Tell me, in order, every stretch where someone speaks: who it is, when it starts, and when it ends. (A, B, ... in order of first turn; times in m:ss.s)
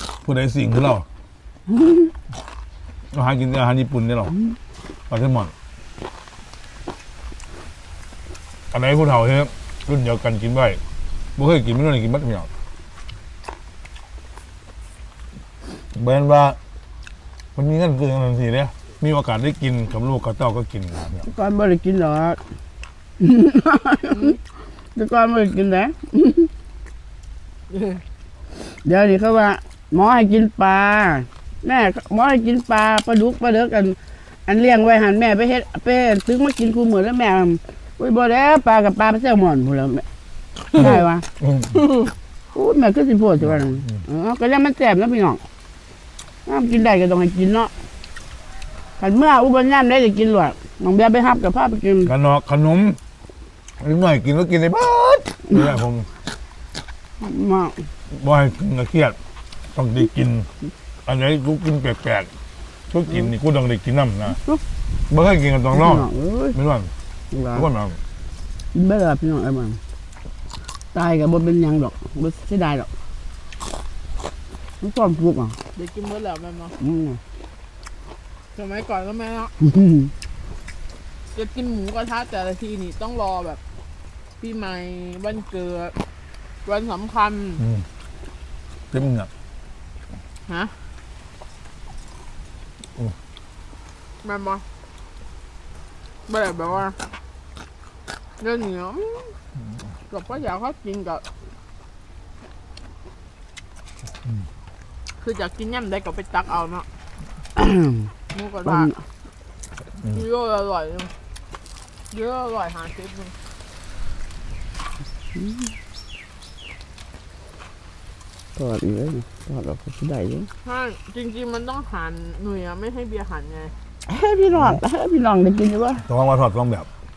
0:00.2-0:01.1 A
0:03.1-0:04.4 A
0:05.1-0:05.5 A
0:08.7-0:10.8 A
0:11.4-0:12.5 A
0:15.9-0:16.6 A
0:17.6-0:21.3 A
0:21.3-0:22.4 B
0:23.2-0:24.4 B
0:24.1-0:24.4 C
0:25.0-0:26.5 B
0:27.7-0:28.0 C
0:28.8-0:40.0 B
0:40.8-0:41.3 B
0:40.8-0:41.8 A
0:41.8-0:42.1 C
0:42.5-0:45.4 B
0:43.4-0:44.0 A
0:46.5-0:47.7 B
0:49.0-0:52.1 B
0:52.0-0:53.0 A
0:53.8-0:56.1 A
0:57.2-0:57.9 B
0:58.1-0:59.2 A
0:59.7-1:00.5 A
1:01.0-1:02.3 A
1:02.9-1:04.4 A
1:05.1-1:06.9 A
1:05.7-1:06.6 B
1:07.3-1:07.6 B
1:07.5-1:08.0 A
1:08.7-1:09.8 B
1:10.9-1:12.9 B
1:14.8-1:15.6 B
1:15.7-1:16.7 C
1:16.8-1:17.2 B
1:18.5-1:19.5 C
1:19.6-1:20.1 B
1:21.3-1:23.6 C
1:24.4-1:26.0 C
1:26.6-1:27.7 C
1:27.6-1:27.9 A
1:28.9-1:29.3 A
1:30.5-1:30.8 C
1:34.2-1:34.6 C
1:36.3-1:37.0 C
1:38.4-1:39.4 C
1:40.1-1:41.2 C
1:45.2-1:46.9 C
1:47.6-1:48.1 B
1:48.3-1:48.9 C
1:48.7-1:48.9 B
1:50.0-1:51.1 C
1:52.1-1:53.4 C
1:55.4-1:55.7 B
1:58.6-2:00.5 B
2:00.6-2:03.7 C
2:04.1-2:06.0 B
2:04.5-2:04.8 A
2:06.1-2:06.9 A